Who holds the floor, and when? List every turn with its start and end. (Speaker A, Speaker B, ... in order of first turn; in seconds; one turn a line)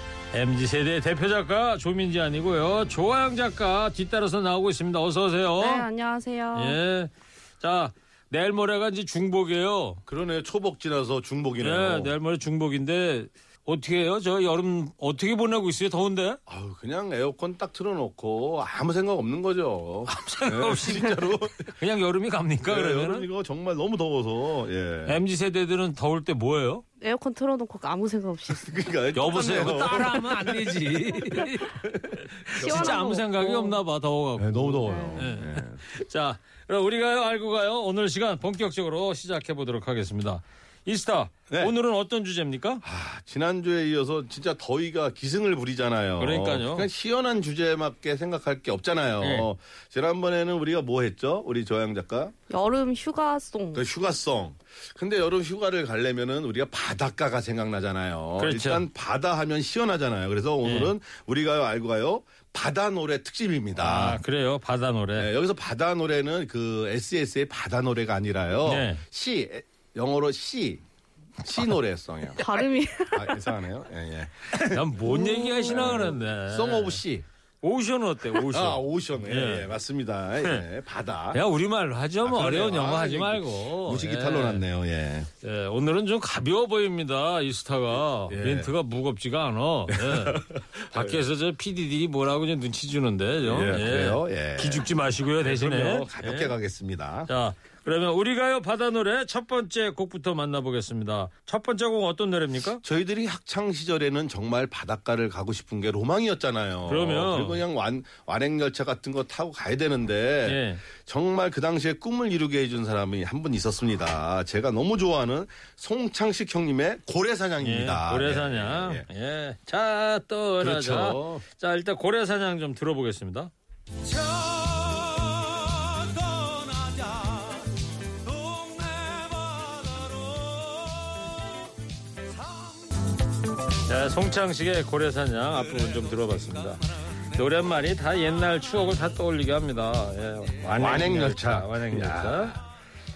Speaker A: 0.3-5.9
Speaker B: 5.6-6.8
Speaker A: 6.5-10.0
Speaker C: 10.1-12.1
Speaker A: 11.6-16.4
Speaker C: 16.5-21.7
Speaker A: 20.1-21.1
Speaker A: 21.7-23.3
Speaker C: 22.6-25.2
Speaker A: 25.1-26.8
Speaker B: 27.0-28.8
Speaker C: 28.5-30.3
Speaker A: 29.1-31.8
Speaker B: 29.5-29.8
Speaker C: 31.8-33.0
Speaker A: 32.4-42.8
Speaker B: 32.6-33.8
Speaker C: 34.4-35.8
Speaker B: 34.9-35.2
Speaker C: 42.8-52.3
Speaker A: 46.2-46.9
Speaker A: 49.2-49.5
Speaker B: 52.5-53.8
Speaker C: 53.7-64.2
Speaker A: 58.4-58.8
Speaker A: 60.6-60.9
Speaker A: 63.8-65.3
Speaker C: 65.2-70.8
Speaker A: 68.7-69.0
Speaker C: 71.4-77.2
Speaker B: 72.4-73.4
Speaker A: 74.5-77.0
Speaker B: 75.2-75.7
Speaker A: 77.6-79.7
Speaker C: 78.4-81.4
Speaker A: 81.3-84.6
Speaker C: 82.2-85.3
Speaker A: 85.4-96.5
Speaker C: 88.3-88.7
Speaker C: 89.9-91.2
Speaker C: 93.5-97.3
Speaker A: 97.3-102.8
Speaker C: 102.8-119.1
Speaker A: 106.9-107.6
Speaker A: 110.5-110.8
Speaker A: 117.6-123.5
Speaker C: 120.6-121.4
Speaker A: 133.8-142.6
Speaker C: 140.7-142.6